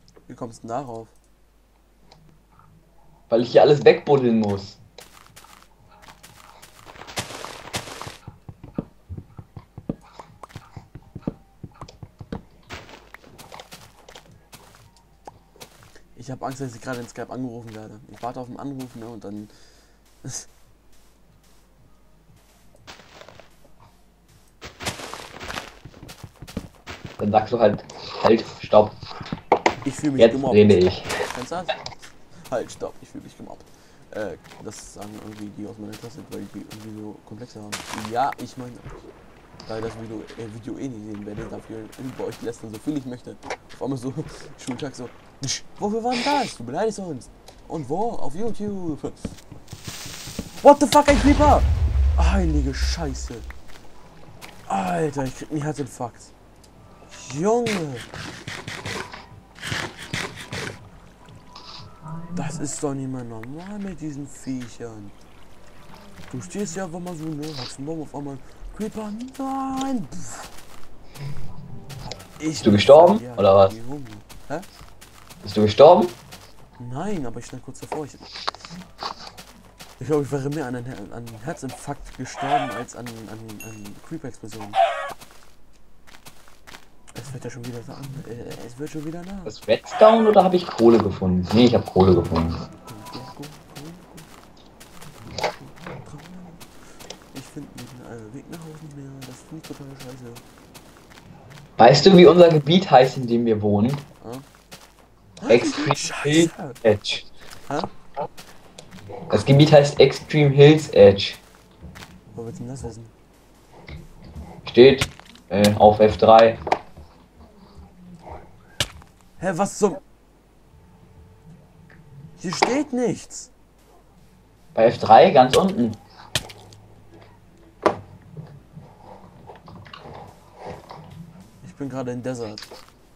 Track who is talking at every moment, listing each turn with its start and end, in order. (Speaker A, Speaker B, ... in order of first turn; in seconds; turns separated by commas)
Speaker A: 0.3-1.1, Speaker B: 3.3-4.8, Speaker A: 16.1-19.5, Speaker B: 27.2-28.9, Speaker A: 29.8-31.9, Speaker B: 30.2-31.2, Speaker A: 32.4-39.1, Speaker A: 39.7-49.4, Speaker A: 50.6-53.5, Speaker A: 54.7-56.3, Speaker A: 57.1-58.1, Speaker A: 62.4-65.1, Speaker A: 66.3-70.5, Speaker A: 72.4-74.7, Speaker B: 72.6-73.8, Speaker B: 75.4-76.2, Speaker A: 76.8-78.3, Speaker A: 80.0-84.8, Speaker A: 87.1-89.6, Speaker B: 89.5-92.6, Speaker A: 92.7-94.3, Speaker A: 95.5-96.6, Speaker A: 97.3-100.4, Speaker B: 101.8-104.0, Speaker A: 105.4-106.8, Speaker B: 105.5-107.3, Speaker A: 107.7-107.9, Speaker B: 109.3-111.4, Speaker A: 112.3-113.1, Speaker B: 114.7-116.6, Speaker A: 119.4-120.0, Speaker A: 122.4-123.5, Speaker B: 124.8-126.0, Speaker A: 131.6-132.7